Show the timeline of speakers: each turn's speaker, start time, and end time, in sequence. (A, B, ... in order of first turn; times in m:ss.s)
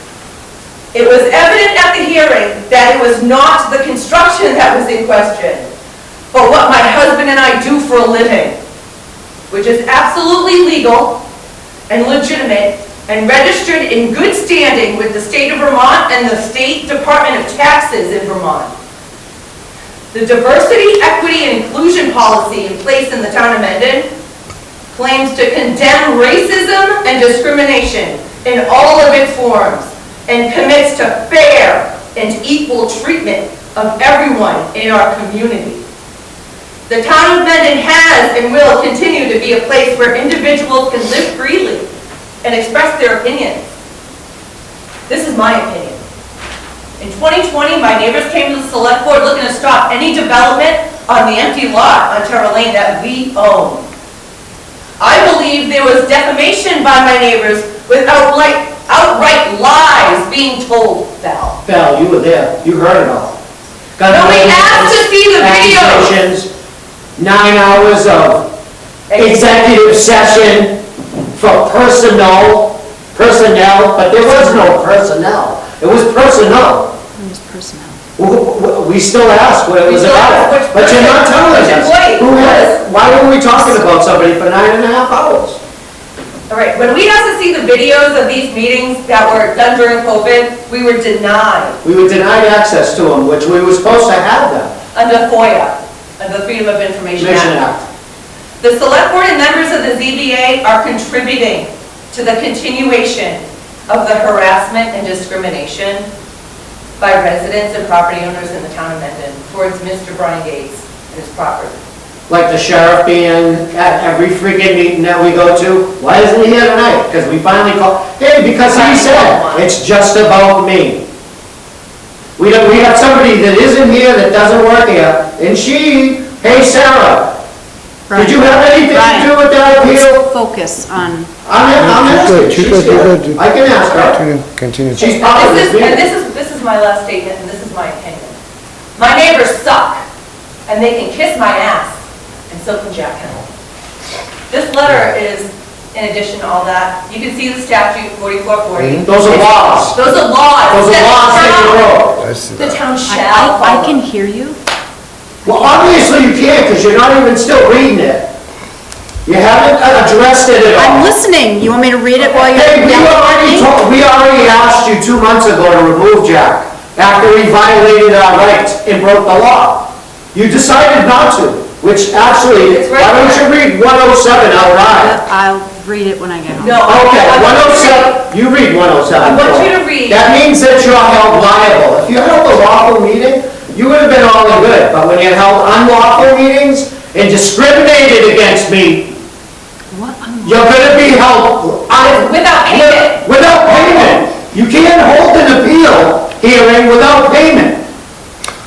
0:00.9-0:05.7 A
0:06.3-0:08.5 A
0:09.5-0:11.2 A
0:11.9-0:18.7 A
0:20.1-0:24.1 A
0:24.9-0:35.8 A
0:36.9-0:41.9 A
0:42.4-0:43.6 A
0:45.1-0:46.0 A
0:47.0-0:53.9 A
0:55.0-1:01.6 A
1:01.6-1:03.4 B
1:04.0-1:06.5 B
1:04.1-1:06.1 A
1:07.2-1:08.5 B
1:09.1-1:09.6 A
1:09.2-1:10.8 B
1:11.3-1:16.9 B
1:14.2-1:14.7 C
1:17.2-1:18.0 C
1:18.2-1:25.6 B
1:19.8-1:22.8 A
1:26.5-1:31.8 A
1:31.8-1:34.7 B
1:34.9-1:37.6 A
1:37.2-1:37.8 B
1:38.6-1:46.1 A
1:47.0-1:51.8 A
1:52.3-2:01.0 B
1:58.6-1:59.7 A
2:02.4-2:07.4 B
2:08.1-2:11.3 C
2:08.1-2:10.3 B
2:11.4-2:14.2 B
2:11.8-2:15.2 D
2:15.0-2:16.0 B
2:15.2-2:18.4 A
2:19.0-2:20.0 A
2:20.7-2:21.9 A
2:22.5-2:23.5 A
2:24.5-2:32.0 A
2:28.8-2:29.1 D
2:29.1-2:30.0 B
2:30.7-2:32.2 B
2:32.2-2:32.8 D
2:32.6-2:34.0 A
2:33.0-2:34.6 C
2:35.4-2:38.3 B
2:35.5-2:35.8 C
2:39.2-2:41.1 B
2:40.8-2:43.7 C
2:42.4-2:55.2 B
2:52.6-2:53.5 A
2:54.8-2:56.9 C
2:56.6-2:58.2 A
2:56.8-3:09.2 B
2:59.2-3:00.4 A
3:09.9-3:10.7 C
3:10.4-3:17.8 B
3:12.0-3:13.8 A